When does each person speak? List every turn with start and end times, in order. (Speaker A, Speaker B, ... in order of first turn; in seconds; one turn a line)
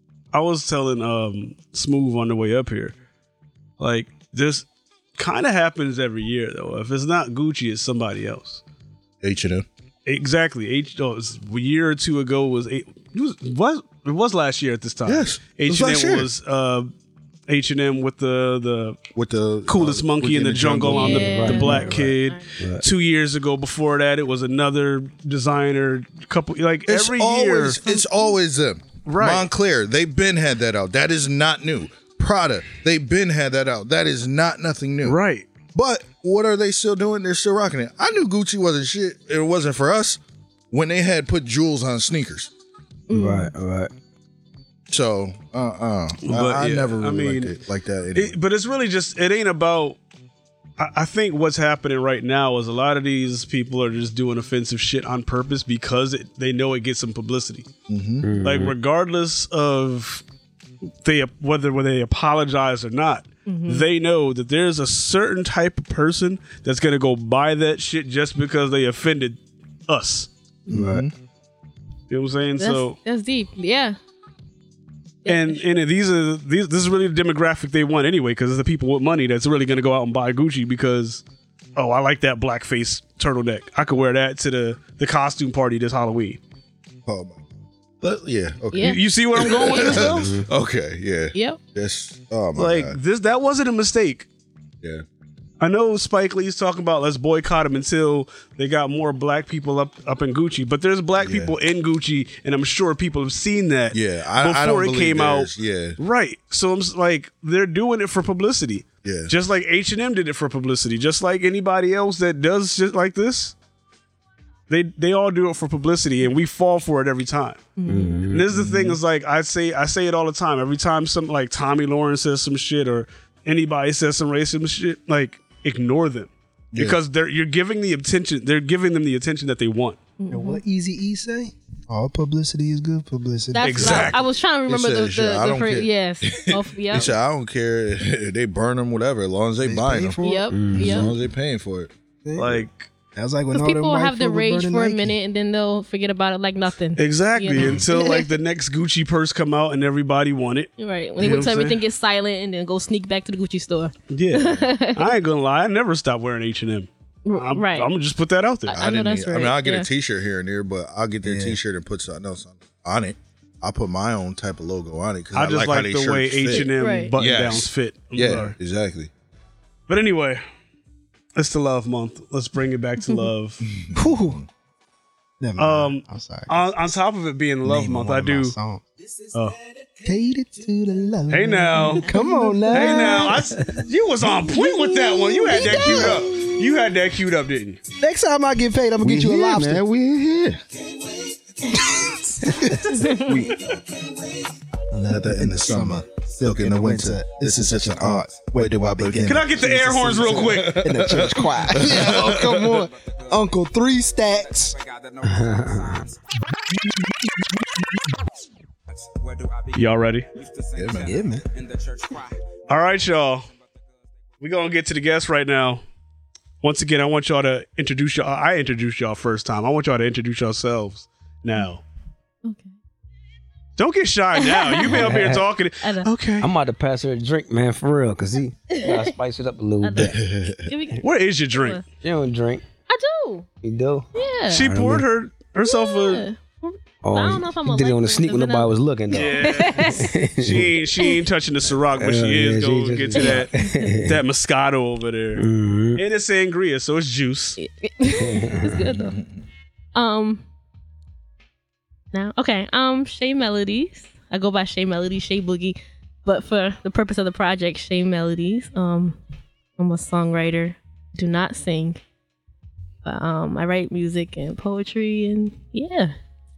Speaker A: 0.3-3.0
Speaker A: 3.8-4.7
Speaker A: 5.2-8.6
Speaker B: 9.2-9.7
Speaker A: 10.1-16.9
Speaker B: 15.1-16.3
Speaker A: 17.5-19.0
Speaker B: 19.1-21.3
Speaker A: 19.7-27.8
Speaker C: 20.9-22.5
Speaker D: 21.0-22.8
Speaker B: 26.9-35.2
Speaker C: 27.9-28.3
Speaker A: 29.1-29.5
Speaker A: 35.0-35.5
Speaker B: 35.7-40.2
Speaker B: 40.7-42.5
Speaker C: 43.1-43.5
Speaker D: 43.1-43.9
Speaker B: 44.9-48.4
Speaker A: 46.2-47.5
Speaker A: 48.1-50.0
Speaker A: 50.8-57.7
Speaker B: 57.9-58.3
Speaker D: 58.2-58.7
Speaker A: 58.4-60.2
Speaker A: 61.0-70.3
Speaker C: 63.5-63.9
Speaker B: 70.7-71.1
Speaker D: 70.7-71.1
Speaker A: 72.1-73.0
Speaker C: 72.6-74.0
Speaker C: 75.2-75.6
Speaker A: 75.3-81.2
Speaker A: 81.8-86.4
Speaker B: 87.1-87.4
Speaker B: 88.0-93.0
Speaker C: 88.7-89.0
Speaker A: 88.8-90.4
Speaker D: 90.1-90.5
Speaker C: 91.3-91.6
Speaker A: 92.6-94.3
Speaker A: 95.6-113.5
Speaker B: 101.2-101.5
Speaker B: 103.9-106.0
Speaker B: 109.0-109.3
Speaker A: 114.7-117.7
Speaker C: 117.8-118.2
Speaker D: 117.9-119.0
Speaker A: 118.3-130.0
Speaker B: 126.7-127.0
Speaker C: 130.2-130.6
Speaker E: 130.3-134.1
Speaker C: 133.5-137.1
Speaker A: 133.6-134.2
Speaker B: 133.8-134.2
Speaker B: 134.7-140.2
Speaker E: 139.6-140.6
Speaker C: 140.2-141.1
Speaker D: 140.5-141.1
Speaker B: 140.8-141.9
Speaker E: 142.2-142.6
Speaker A: 142.4-142.9
Speaker E: 143.2-145.2
Speaker C: 143.5-148.3
Speaker A: 147.0-151.8
Speaker C: 150.8-155.1
Speaker A: 154.1-158.7
Speaker C: 157.3-157.9
Speaker C: 158.7-159.9
Speaker B: 158.7-169.1
Speaker E: 161.2-161.6
Speaker A: 165.3-168.6
Speaker C: 166.5-167.1
Speaker A: 169.9-170.4
Speaker A: 171.4-173.6
Speaker B: 173.6-174.5
Speaker E: 174.0-174.4
Speaker E: 175.4-177.0
Speaker A: 175.6-178.6
Speaker E: 177.6-178.8
Speaker E: 180.1-183.5
Speaker A: 181.3-182.1
Speaker C: 182.2-183.3
Speaker A: 182.7-187.8
Speaker E: 184.5-186.6
Speaker C: 184.9-186.1
Speaker E: 188.0-189.8
Speaker F: 189.0-190.6
Speaker E: 192.0-193.2
Speaker C: 192.9-193.3
Speaker F: 193.1-193.6
Speaker E: 194.9-204.8
Speaker B: 195.1-199.5
Speaker A: 199.3-200.9
Speaker B: 200.6-202.8
Speaker D: 205.2-206.1
Speaker A: 209.7-210.3
Speaker B: 210.8-211.2
Speaker E: 211.0-211.4
Speaker A: 212.7-213.5
Speaker A: 214.4-215.8
Speaker A: 216.6-221.8
Speaker C: 222.4-222.7
Speaker A: 223.8-226.5
Speaker C: 224.4-225.2
Speaker D: 224.9-225.5
Speaker C: 225.8-226.1
Speaker D: 226.4-230.2
Speaker C: 228.7-229.1
Speaker C: 229.8-231.8
Speaker B: 230.0-230.6
Speaker A: 231.0-231.8
Speaker D: 232.0-232.6
Speaker C: 232.9-233.5
Speaker D: 233.6-234.1
Speaker C: 234.2-234.7
Speaker A: 234.5-236.2
Speaker D: 234.6-235.1
Speaker C: 235.6-240.1
Speaker D: 237.0-240.7
Speaker A: 239.1-243.5
Speaker D: 242.0-244.2
Speaker C: 243.1-243.9
Speaker A: 244.1-247.6
Speaker D: 245.4-246.0
Speaker C: 247.6-249.2
Speaker D: 248.2-248.9
Speaker B: 249.0-249.2
Speaker C: 249.9-250.4
Speaker C: 252.1-259.2
Speaker C: 259.8-262.0
Speaker C: 263.1-266.1